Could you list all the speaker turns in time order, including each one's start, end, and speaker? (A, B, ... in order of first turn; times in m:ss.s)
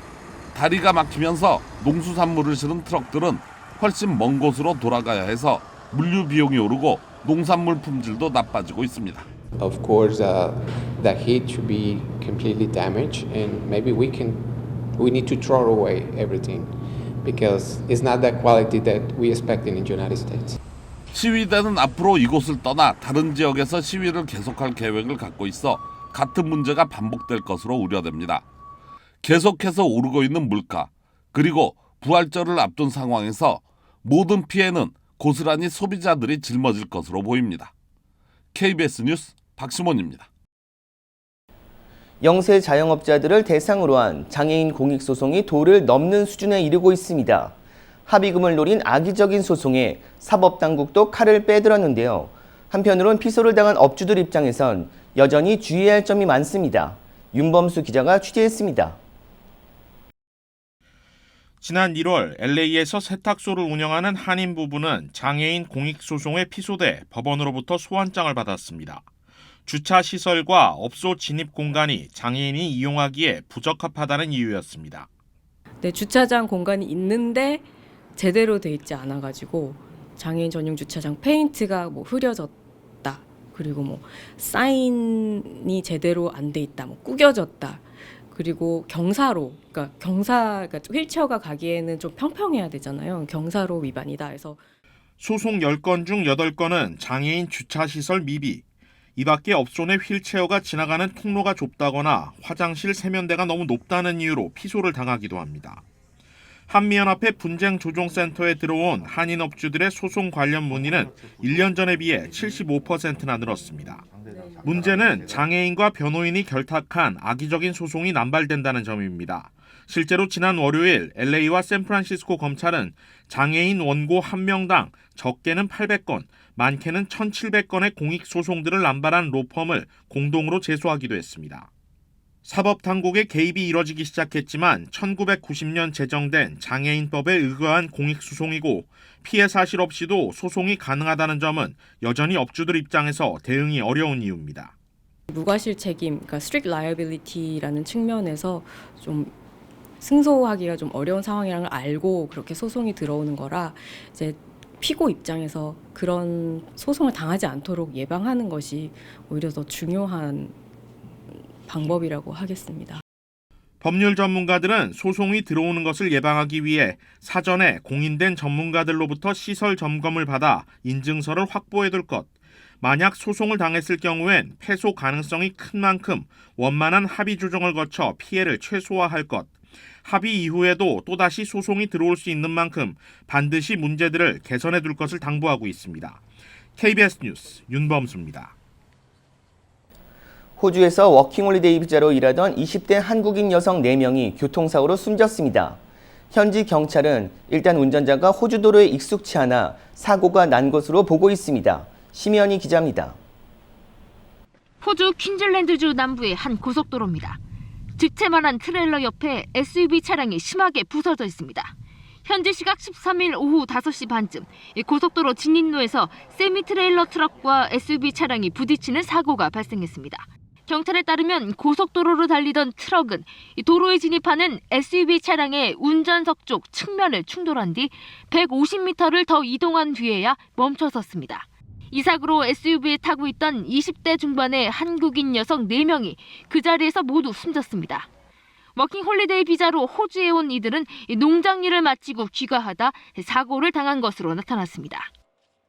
0:00.5-0:09.3 A
0:09.5-0:20.6 B
0:21.1-0:28.4 A
0:29.2-0:37.7 A
0:38.5-0:40.3 A
0:42.2-0:59.0 C
1:01.6-1:09.1 D
1:09.6-1:15.1 D
1:15.8-1:34.6 E
1:35.2-1:38.6 D
1:39.2-1:45.8 D
1:46.7-1:54.1 D
1:54.6-2:11.7 D
2:12.4-2:24.7 D
2:25.3-2:29.3 E
2:30.0-2:40.5 E
2:41.6-2:43.0 E
2:43.8-2:52.3 D
2:52.8-3:06.2 D
3:06.8-3:08.5 D
3:10.6-3:15.8 C
3:16.3-3:23.2 C
3:24.8-3:27.4 F
3:28.0-3:31.7 F
3:32.2-3:58.1 F
3:58.8-4:05.1 F